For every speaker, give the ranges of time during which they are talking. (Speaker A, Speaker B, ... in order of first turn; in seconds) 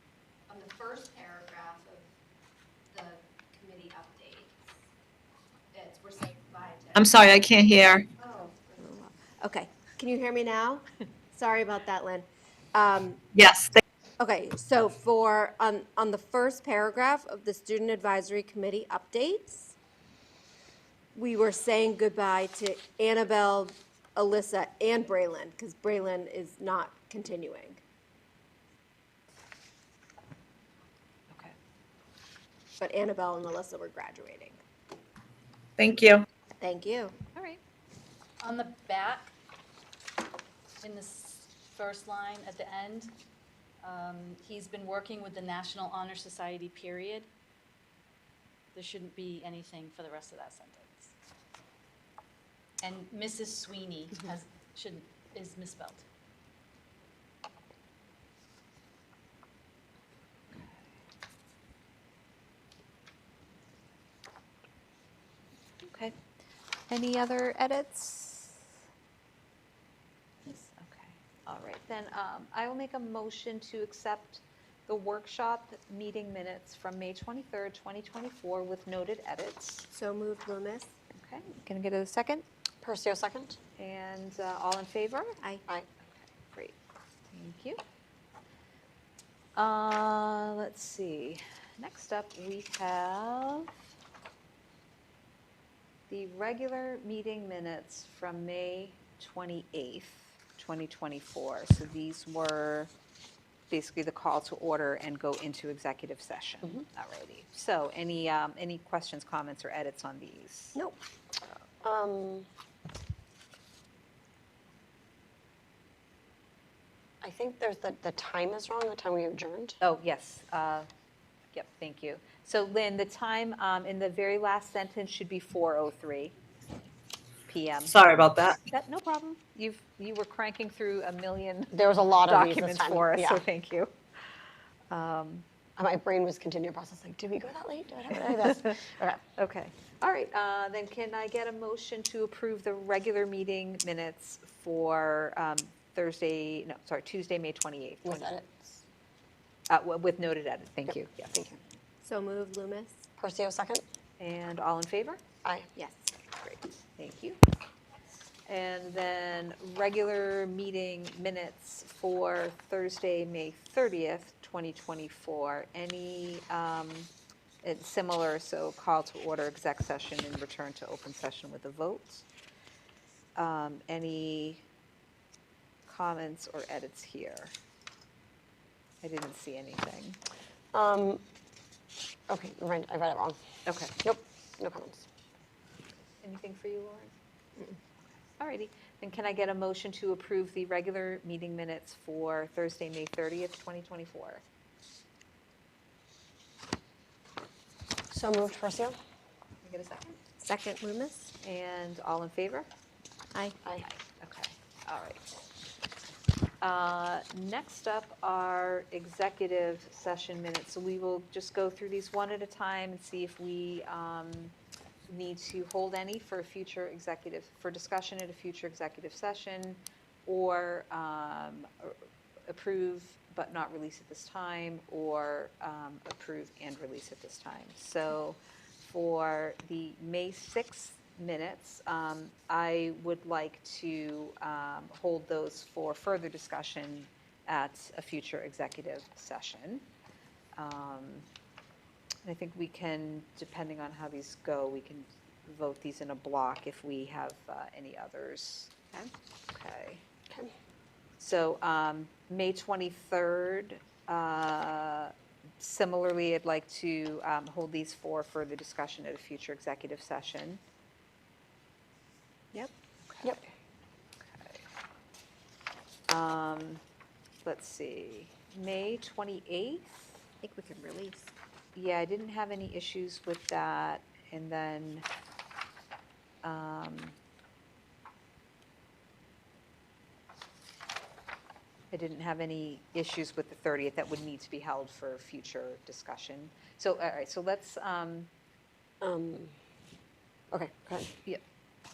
Speaker A: 0.5-2.1, 2.9-4.6, 5.7-7.1, 8.2-13.2, 14.2-19.8, 21.1-27.8, 32.8-34.6, 36.6-37.1, 79.9-80.9, 152.0-153.0, 155.8-156.5, 200.4-201.3, 270.4-271.3
Speaker B: 7.0-8.1, 13.3-13.8, 35.8-36.3, 127.9-128.6
Speaker C: 37.4-37.6, 65.8-66.2, 66.9-68.7, 70.5-79.9, 81.1-82.4, 83.8-85.4, 87.3-87.8, 89.6-93.7, 96.1-102.9, 103.7-110.8, 119.8-120.9, 121.5-126.3, 127.5-128.0, 128.7-133.9, 134.9-135.5, 139.4-148.4, 149.7-151.6, 154.2-155.2, 157.0-157.4, 158.5-167.1, 167.6-172.2, 173.4-174.6, 175.9-177.5, 179.0-180.2, 183.7-183.9, 186.2-187.1, 188.4-194.4, 199.6-200.2, 201.4-202.7, 203.8-205.5, 206.6-214.5, 215.1-221.9, 222.5-239.8, 240.6-241.2, 242.2-250.0, 251.2-260.6, 263.1-263.4, 264.2-264.6, 266.1-266.8, 267.4-270.1, 271.8-275.1, 276.4-277.2, 281.9-288.3
Speaker D: 38.4-39.3, 40.8-43.1, 43.8-47.3, 48.8-51.1, 52.8-56.0
Speaker E: 82.8-83.6, 111.8-112.5, 117.2-119.8, 131.7-133.4, 135.8-139.2, 148.1-148.7, 153.2-153.8, 180.7-181.2, 182.3-183.4, 184.0-185.1, 198.1-199.0, 289.0-289.5, 290.5-291.1